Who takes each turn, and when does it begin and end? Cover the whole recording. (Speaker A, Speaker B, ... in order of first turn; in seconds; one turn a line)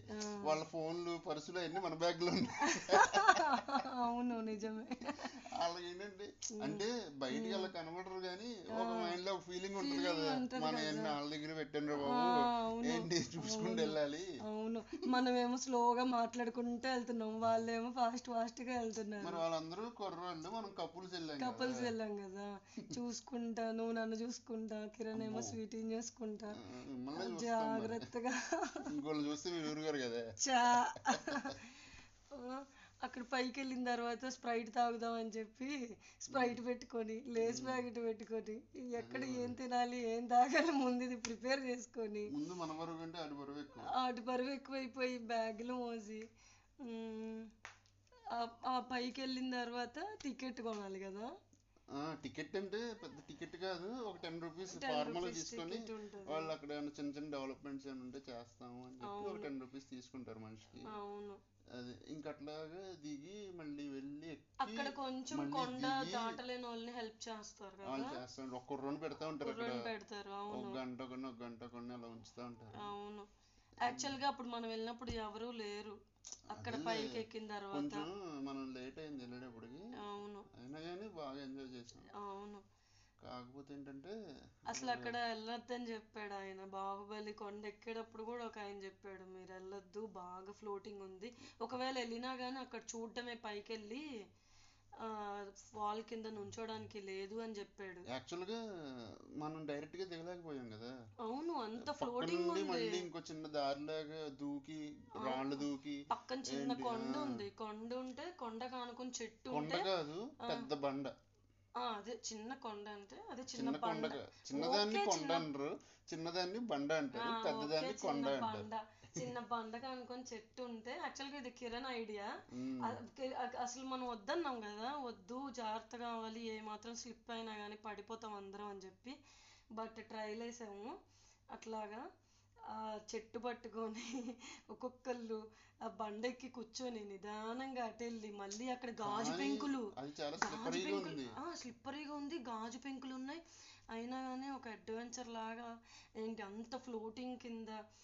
Speaker A: 0.1-0.6
Speaker B: 0.4-3.8
Speaker A: 2.6-5.3
Speaker B: 5.4-14.3
Speaker A: 6.6-7.7
Speaker A: 8.8-9.2
Speaker A: 9.8-11.1
Speaker A: 12.0-19.4
Speaker B: 19.2-21.9
Speaker A: 21.4-26.6
Speaker B: 25.1-25.6
Speaker B: 26.6-28.0
Speaker A: 27.2-28.8
Speaker B: 28.9-30.2
Speaker A: 30.4-42.3
Speaker B: 31.0-31.5
Speaker B: 36.3-36.6
Speaker B: 37.4-37.8
Speaker B: 39.0-39.6
Speaker B: 42.3-43.9
Speaker A: 44.0-46.2
Speaker A: 46.8-47.5
Speaker A: 48.3-51.3
Speaker B: 52.0-60.9
Speaker A: 54.7-56.5
Speaker A: 59.0-59.5
Speaker A: 60.9-61.4
Speaker B: 61.8-66.4
Speaker A: 64.6-68.2
Speaker B: 67.8-69.8
Speaker A: 69.4-70.8
Speaker B: 70.5-72.8
Speaker A: 72.8-73.3
Speaker A: 73.8-76.0
Speaker B: 73.8-74.2
Speaker A: 76.5-78.1
Speaker B: 76.5-77.1
Speaker B: 77.7-79.8
Speaker A: 80.0-80.5
Speaker B: 80.6-82.1
Speaker A: 82.1-82.6
Speaker B: 83.2-84.2
Speaker B: 84.7-85.2
Speaker A: 84.7-94.1
Speaker A: 95.0-98.0
Speaker B: 98.1-98.6
Speaker B: 99.4-100.9
Speaker A: 101.2-103.1
Speaker B: 101.8-107.3
Speaker A: 105.2-109.9
Speaker B: 109.5-111.1
Speaker A: 110.4-110.7
Speaker A: 111.8-115.5
Speaker B: 113.5-118.7
Speaker A: 117.2-122.3
Speaker B: 122.5-123.0
Speaker A: 122.8-129.2
Speaker A: 129.8-130.9
Speaker A: 131.5-132.0
Speaker A: 132.7-147.8
Speaker B: 139.0-141.3